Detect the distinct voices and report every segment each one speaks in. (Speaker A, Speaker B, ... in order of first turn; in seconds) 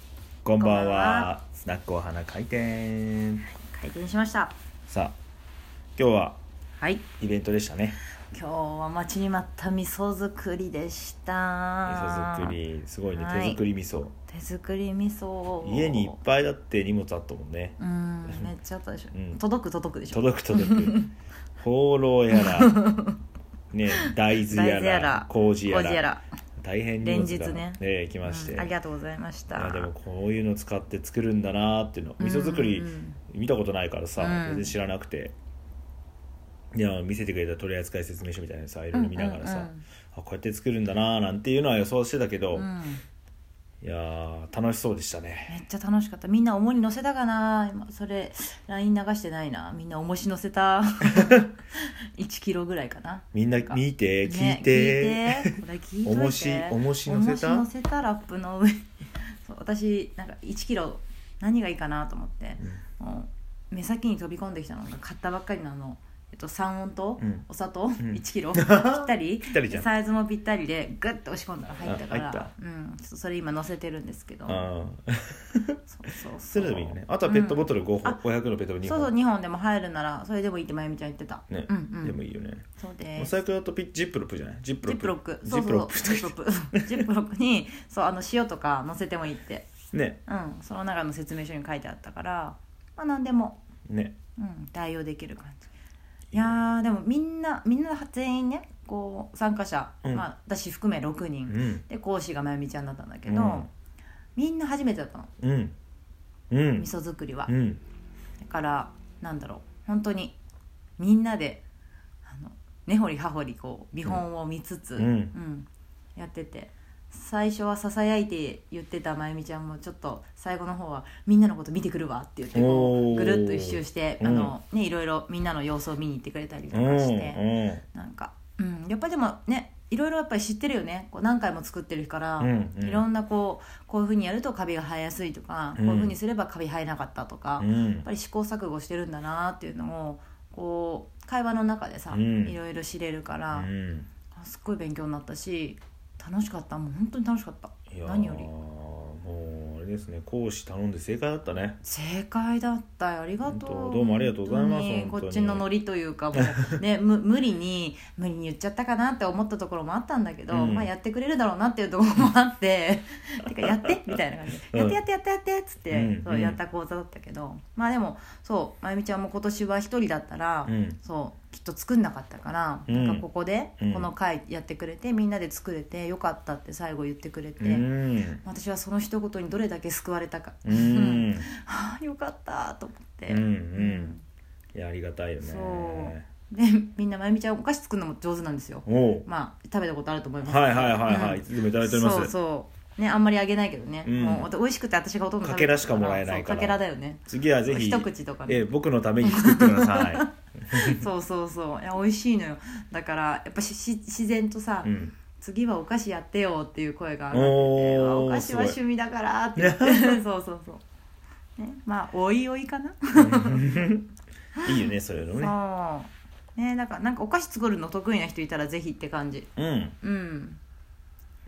Speaker A: 0.4-3.4, 4.9-5.2, 6.0-6.4, 7.2-8.0, 11.9-14.1, 15.6-18.5, 19.1-19.4, 20.1-21.0, 21.6-22.8, 23.7-26.1, 26.6-28.7, 29.5-35.3, 36.7-42.7, 43.8-45.5, 53.3-57.6, 67.2-67.4, 68.0-69.9, 71.8-72.5, 74.5-75.8, 76.5-79.1, 81.5-82.6, 83.2-87.0, 89.9-90.2, 93.9-94.1, 96.3-96.6, 101.5-101.8, 103.2-103.7, 105.4-105.7, 106.5-106.9, 107.5-107.8, 115.0-115.3, 122.5-124.5, 126.7-127.8, 132.4-133.0, 135.8-136.1, 137.6-138.1, 142.1-142.6, 143.5-144.1, 147.9-151.8, 153.5-155.7, 160.5-160.9, 164.7-165.0, 165.9-166.6, 170.7-171.0, 172.9-173.2, 173.8-174.1, 177.6-178.4, 180.7-181.4, 183.3-184.1, 184.7-186.2, 188.8-189.3, 190.4-192.3, 194.0-194.5, 195.4-201.0, 204.8-205.2, 207.3-208.8, 209.6-210.2, 213.1-214.1, 214.6-215.5, 219.6-219.9
Speaker B: 0.6-1.3, 3.5-4.5, 6.8-7.0, 8.3-12.6, 13.1-13.6, 14.3-16.2, 17.8-21.1, 22.3-23.2, 23.9-26.2, 27.0-29.9, 32.2-33.2, 34.2-34.7, 38.9-39.8, 42.5-43.0, 45.5-58.9, 59.4-74.6, 75.9-78.2, 78.8-82.2, 82.8-83.3, 84.8-89.7, 90.2-93.6, 94.4-95.7, 96.3-103.7, 104.3-105.3, 106.8-107.5, 108.4-110.4, 111.0-111.6, 112.2-143.7, 144.3-148.5, 151.8-177.9, 178.4-184.2, 185.4-198.7, 199.2-210.8, 211.6-213.8, 215.3-219.5, 220.0-220.6